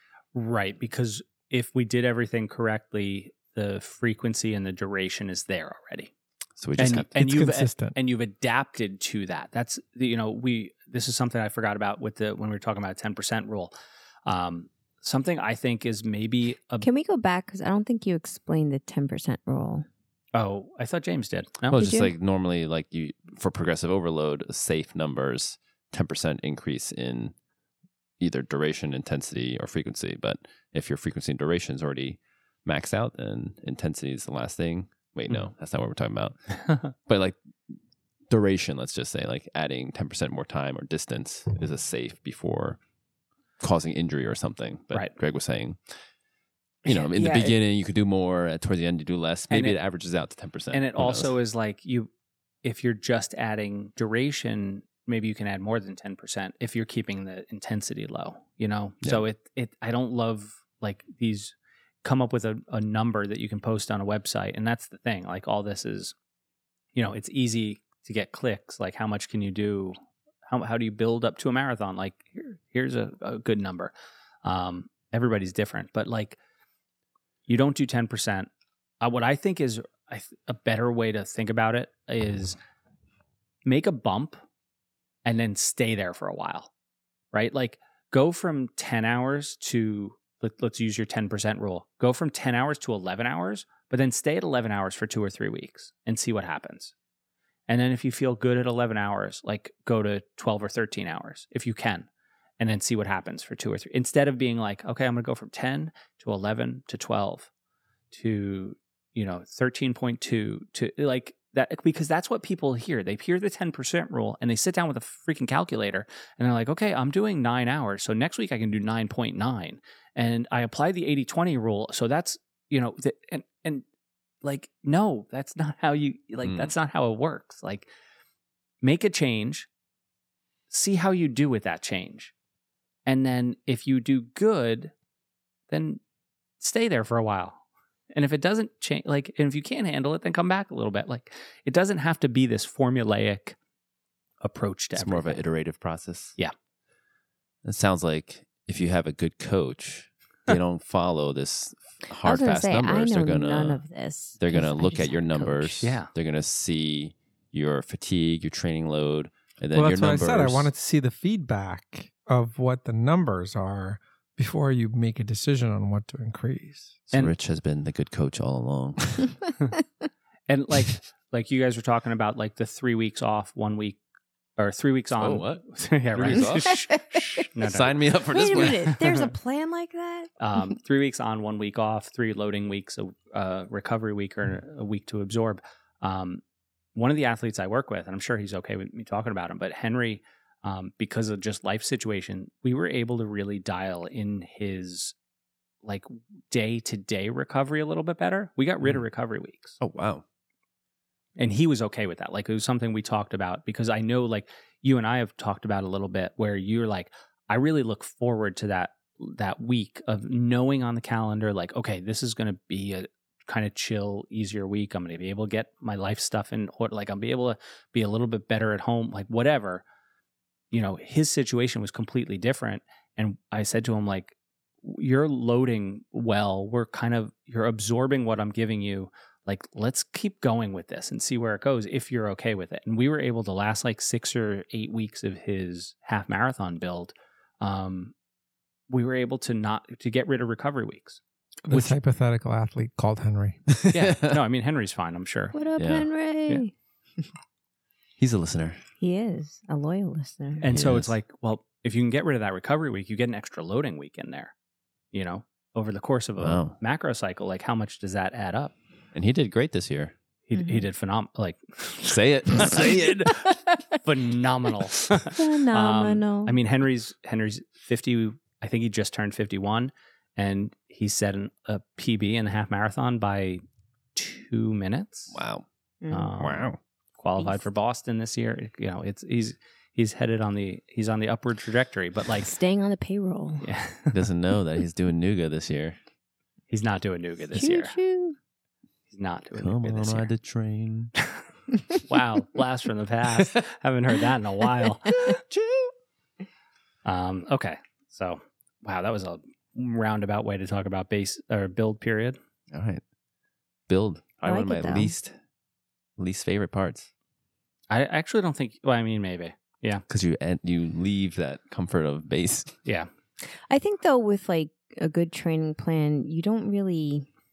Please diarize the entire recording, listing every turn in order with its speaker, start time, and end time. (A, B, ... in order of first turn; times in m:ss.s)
0:00.3-0:06.1 A
0:06.6-0:07.1 B
0:06.8-0:13.7 A
0:07.1-0:08.0 C
0:14.2-0:16.8 A
0:16.8-0:19.8 D
0:20.3-0:21.8 A
0:21.7-0:27.3 B
0:21.7-0:22.1 D
0:28.2-0:37.4 B
0:38.3-0:42.8 B
0:43.6-0:45.8 B
0:46.8-0:51.3 B
0:46.8-0:47.6 A
0:49.5-0:49.8 A
0:50.7-0:52.1 A
0:52.6-1:06.1 A
1:06.9-1:13.9 A
1:14.4-1:16.4 A
1:17.5-1:18.5 A
1:19.0-1:22.6 A
1:23.6-1:24.4 A
1:25.2-1:26.7 A
1:27.3-1:36.9 A
1:37.7-1:42.1 A
1:42.6-1:47.5 A
1:48.1-2:03.8 A
2:04.4-2:07.9 A
2:06.4-2:06.7 B
2:08.8-2:09.7 A
2:10.7-2:12.3 A
2:13.0-2:14.9 A
2:15.7-2:16.0 A
2:16.6-2:23.6 A
2:24.4-2:25.4 A
2:25.0-2:26.4 B
2:27.6-2:33.8 B
2:32.2-2:35.9 D
2:34.4-2:40.7 B
2:35.8-2:36.1 A
2:39.7-2:47.0 C
2:47.1-2:49.4 B
2:50.5-2:54.0 A
2:54.6-2:59.2 A
2:55.2-2:56.8 B
2:57.6-2:59.1 B
2:58.3-3:00.6 D
3:00.4-3:06.4 A
3:06.9-3:15.1 A
3:15.8-3:19.8 A
3:19.8-3:20.2 B
3:21.4-3:39.8 A
3:40.7-3:58.1 A
3:58.9-4:01.9 A
4:01.6-4:03.6 C
4:03.7-4:04.4 B
4:03.9-4:05.6 A
4:05.5-4:07.2 D
4:05.8-4:06.1 B
4:08.2-4:08.8 B
4:09.0-4:10.6 D
4:10.6-4:14.5 A
4:10.7-4:11.1 B
4:15.1-4:18.7 A
4:16.4-4:16.8 B
4:19.1-4:20.1 B
4:20.5-4:23.0 A
4:20.5-4:20.9 D
4:22.0-4:23.6 B
4:24.0-4:33.6 A
4:25.3-4:26.6 D
4:34.1-4:35.4 A
4:35.3-4:35.6 B
4:36.0-4:36.3 D
4:36.1-4:42.5 A
4:36.3-4:36.8 B
4:37.4-4:37.6 D
4:42.4-4:43.7 D
4:43.6-4:44.2 A
4:44.1-4:46.0 B
4:46.7-4:48.0 A
4:47.5-4:48.4 D
4:49.1-4:50.3 A
4:49.5-4:51.1 B
4:52.0-4:55.4 A
4:55.5-4:55.9 B
4:57.0-5:02.4 A
5:02.7-5:03.0 B
5:03.9-5:05.3 B
5:04.4-5:05.1 D
5:06.2-5:07.1 B
5:07.9-5:10.0 A
5:10.1-5:12.8 B
5:13.7-5:17.3 D